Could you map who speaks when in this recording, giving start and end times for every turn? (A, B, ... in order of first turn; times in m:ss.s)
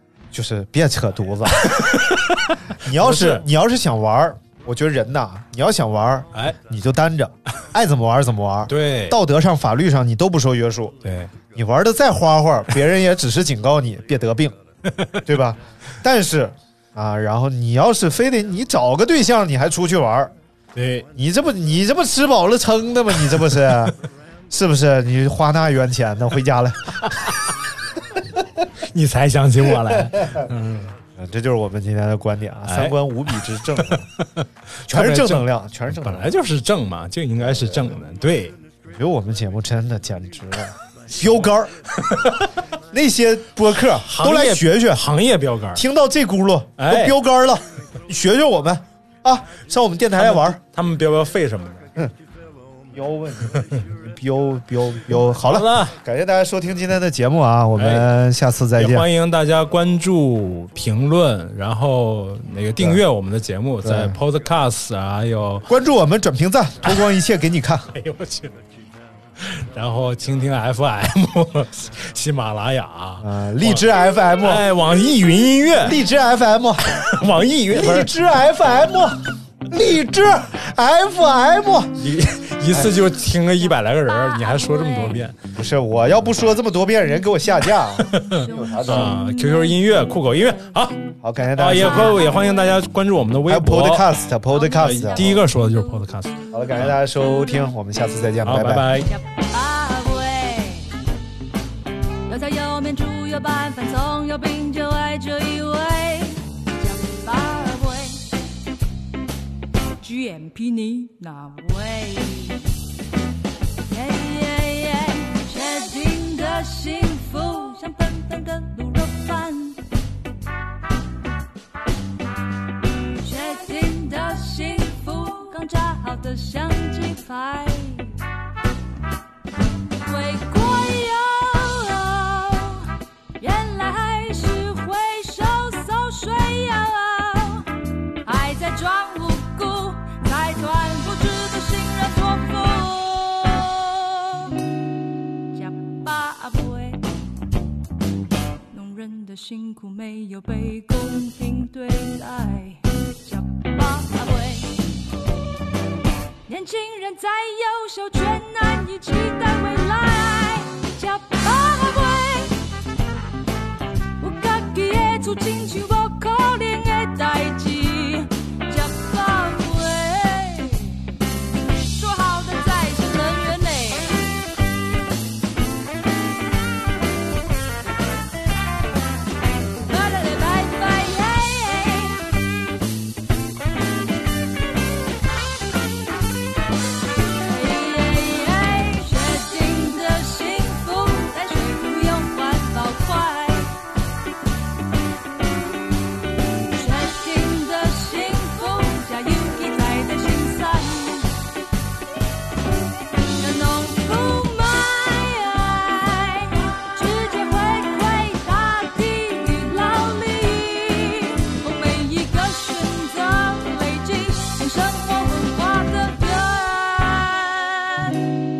0:00.3-0:01.8 A
0:01.6-0:03.5 B
0:02.7-0:11.0 A
0:08.7-0:09.2 B
0:11.0-0:11.4 B
0:11.5-0:14.6 A
0:14.9-0:15.3 B
0:15.3-0:20.3 A
0:20.8-0:21.1 B
0:21.2-0:24.0 A
0:24.5-0:27.2 A
0:28.2-0:28.6 A
0:28.9-0:31.0 B
0:29.9-0:30.5 A
0:31.2-0:34.1 A
0:32.7-0:33.0 B
0:33.9-0:38.6 B
0:34.9-0:36.3 A
0:37.4-0:38.0 A
0:38.8-0:41.7 A
0:42.0-0:42.6 B
0:42.9-0:45.1 A
0:44.0-0:45.8 B
0:45.8-0:50.6 A
0:46.8-0:47.2 B
0:50.2-0:51.9 B
0:52.9-0:59.1 A
0:53.5-0:53.8 B
0:55.4-0:56.0 B
0:57.8-0:58.1 B
0:58.8-1:05.7 B
1:03.8-1:04.2 A
1:05.7-1:07.9 A
1:07.9-1:08.6 B
1:09.4-1:13.8 B
1:13.2-1:14.6 A
1:14.4-1:16.0 B
1:15.8-1:17.0 A
1:17.0-1:18.1 B
1:17.7-1:22.0 A
1:22.0-1:25.4 B
1:24.1-1:25.2 C
1:25.6-1:29.2 A
1:28.0-1:31.0 B
1:28.2-1:30.7 C
1:31.2-1:32.2 A
1:31.6-1:34.1 B
1:33.5-1:35.4 A
1:34.5-1:36.0 C
1:34.8-1:37.0 B
1:36.5-1:38.9 A
1:38.4-1:39.1 B
1:39.1-1:40.9 C
1:42.3-1:48.3 C
1:50.0-1:52.6 C
1:53.8-1:59.8 C
2:03.2-2:08.2 C
2:10.0-2:17.7 C
2:18.2-2:24.5 C
2:25.5-2:27.0 C
2:28.7-2:34.8 C
2:36.5-2:42.6 C
2:44.2-2:51.1 C
2:51.9-2:54.3 C
2:59.8-3:02.3 C
3:07.4-3:13.8 C
3:16.7-3:21.3 C
3:23.4-3:38.2 C